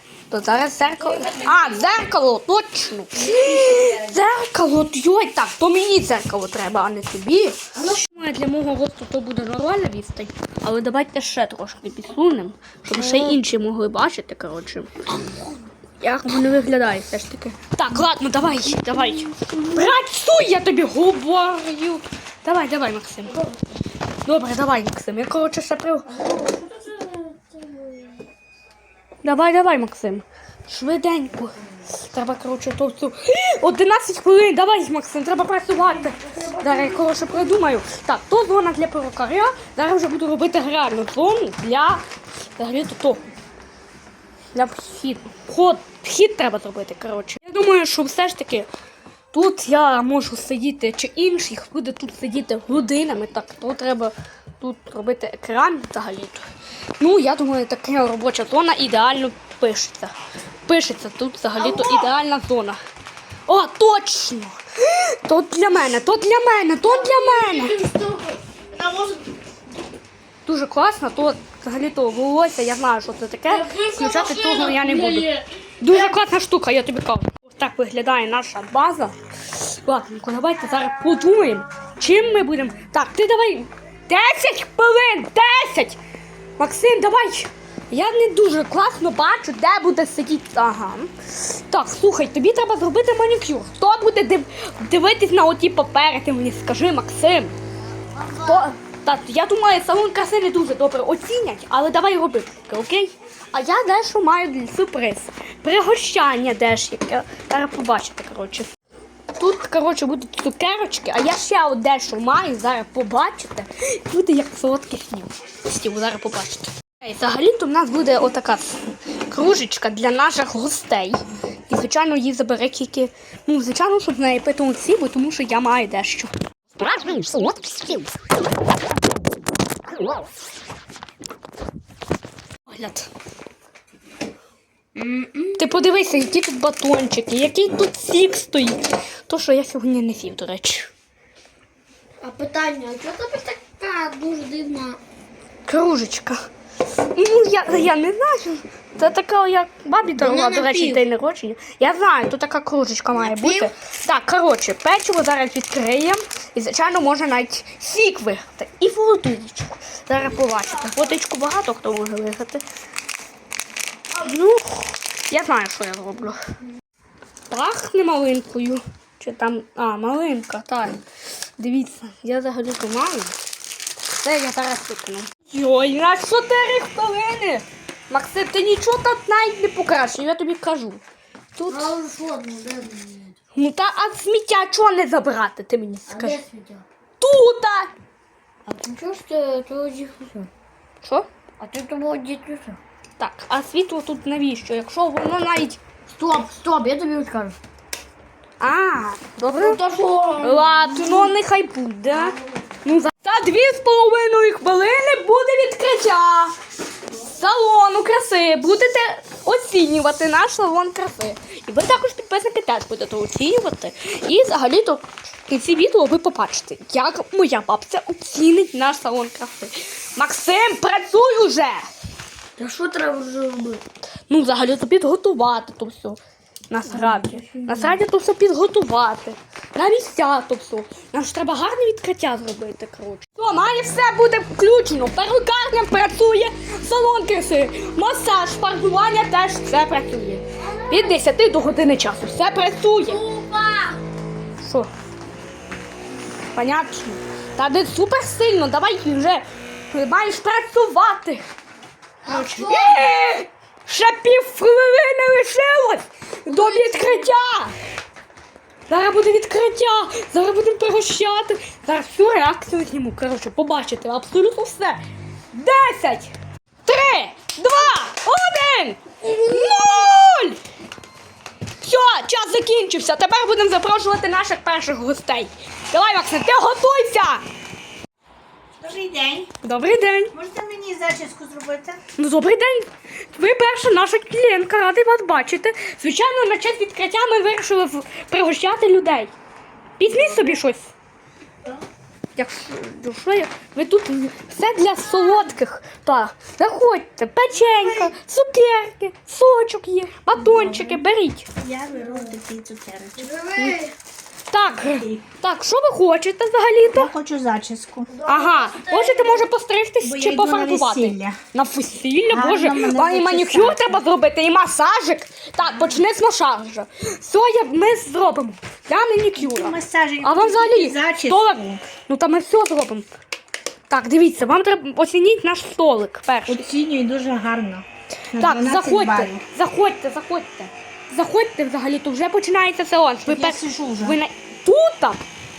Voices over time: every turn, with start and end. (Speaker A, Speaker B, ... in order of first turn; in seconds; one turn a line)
Speaker A: 0.3-15.2
Speaker B: 3.2-4.0
Speaker B: 13.0-13.3
Speaker A: 16.0-23.4
Speaker A: 24.2-26.1
Speaker B: 26.1-28.2
Speaker A: 29.2-42.0
Speaker B: 36.2-36.6
Speaker A: 42.5-43.2
Speaker A: 44.5-48.7
Speaker A: 49.3-56.4
Speaker A: 57.0-60.1
Speaker A: 60.6-62.8
Speaker B: 61.6-62.1
Speaker A: 63.5-67.9
Speaker B: 66.9-69.2
Speaker A: 70.4-86.0
Speaker B: 73.5-76.0
Speaker A: 86.6-97.5
Speaker B: 98.1-98.7
Speaker A: 98.4-108.7
Speaker A: 109.3-118.8
Speaker A: 119.3-126.3
Speaker A: 132.7-133.1
Speaker B: 134.9-135.6
Speaker A: 135.6-140.9
Speaker B: 142.2-145.0
Speaker A: 145.7-146.4
Speaker A: 147.1-162.6
Speaker B: 150.2-151.0
Speaker B: 153.2-153.7
Speaker A: 164.1-166.4
Speaker A: 167.5-171.0
Speaker A: 171.6-173.3
Speaker A: 174.1-181.0
Speaker A: 181.6-181.9
Speaker B: 181.7-183.3
Speaker A: 183.5-186.4
Speaker B: 186.1-186.8
Speaker A: 187.2-187.9
Speaker B: 188.7-190.5
Speaker A: 191.0-191.3
Speaker B: 191.6-192.8
Speaker A: 193.2-195.8
Speaker B: 196.1-197.6
Speaker A: 198.6-199.8
Speaker B: 199.6-201.3
Speaker A: 200.4-206.5
Speaker A: 207.2-221.9
Speaker B: 222.6-223.8
Speaker A: 224.3-226.2
Speaker A: 226.7-243.2
Speaker B: 226.9-228.0
Speaker B: 240.6-241.2
Speaker B: 243.1-244.0
Speaker A: 244.6-244.9
Speaker A: 246.5-251.4
Speaker B: 252.2-253.1
Speaker A: 252.3-257.7
Speaker B: 256.5-257.2
Speaker A: 258.9-265.0
Speaker A: 265.5-266.3
Speaker A: 266.9-270.6
Speaker A: 271.8-277.4
Speaker C: 278.8-279.5
Speaker A: 279.6-280.3
Speaker C: 280.3-282.0
Speaker A: 282.2-289.3
Speaker A: 290.0-290.9
Speaker A: 292.4-301.5
Speaker C: 297.7-298.1
Speaker C: 300.4-301.0
Speaker C: 301.6-303.3
Speaker B: 303.2-303.9
Speaker A: 303.6-303.9
Speaker A: 304.5-307.1
Speaker C: 304.8-305.2
Speaker C: 306.9-308.1
Speaker B: 308.1-309.4
Speaker A: 308.2-323.1
Speaker C: 310.0-311.4
Speaker C: 312.3-314.0
Speaker C: 319.4-321.8
Speaker A: 323.9-326.6
Speaker C: 326.5-329.4
Speaker A: 328.3-335.2
Speaker C: 333.3-334.2